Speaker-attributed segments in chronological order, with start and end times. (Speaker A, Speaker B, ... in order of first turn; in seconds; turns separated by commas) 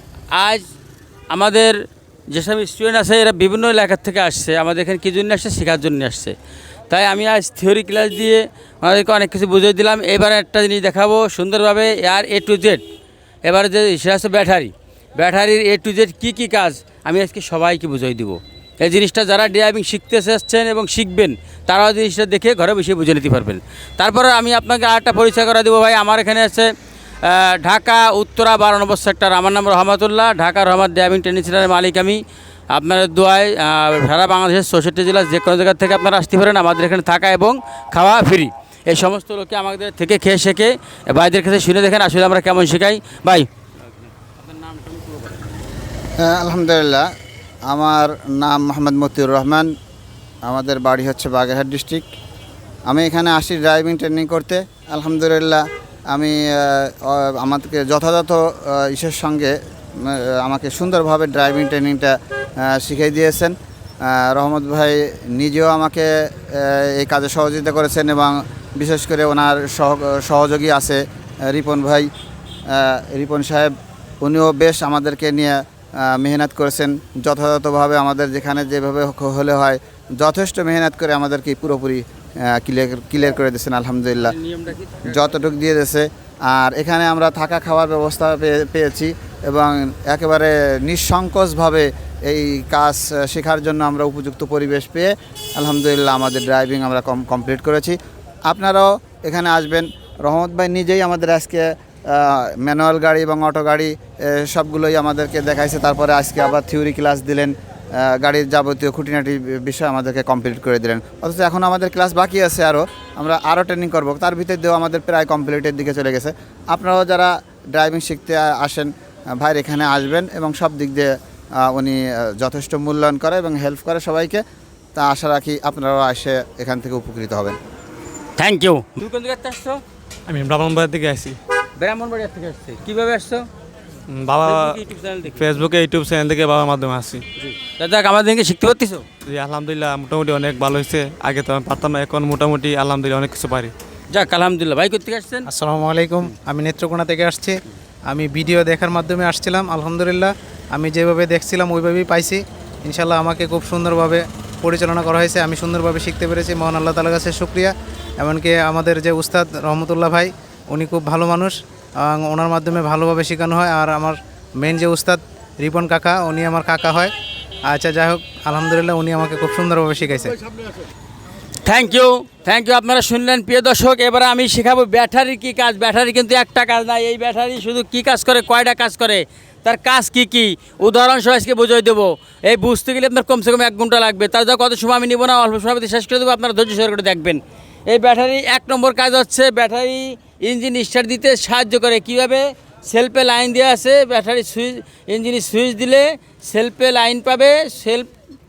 Speaker A: 0.3-0.7, Speaker A: 1.3-1.8, Speaker A: 2.3-6.3, Speaker A: 6.9-12.8, Speaker A: 13.4-26.7, Speaker A: 27.2-45.5, Speaker B: 46.2-47.1, Speaker B: 47.7-49.7, Speaker B: 50.5-52.1, Speaker B: 52.9-72.1, Speaker B: 72.7-84.3, Speaker A: 84.2-85.4, Speaker B: 85.1-124.4, Speaker B: 125.0-127.6, Speaker A: 128.4-129.8, Speaker C: 130.3-131.4, Speaker A: 131.8-133.5, Speaker C: 134.1-137.2, Speaker A: 134.4-135.5, Speaker A: 137.4-139.1, Speaker C: 139.2-143.7, Speaker A: 144.1-145.5, Speaker D: 145.5-167.1, Speaker D: 167.7-170.3, Speaker A: 171.6-198.1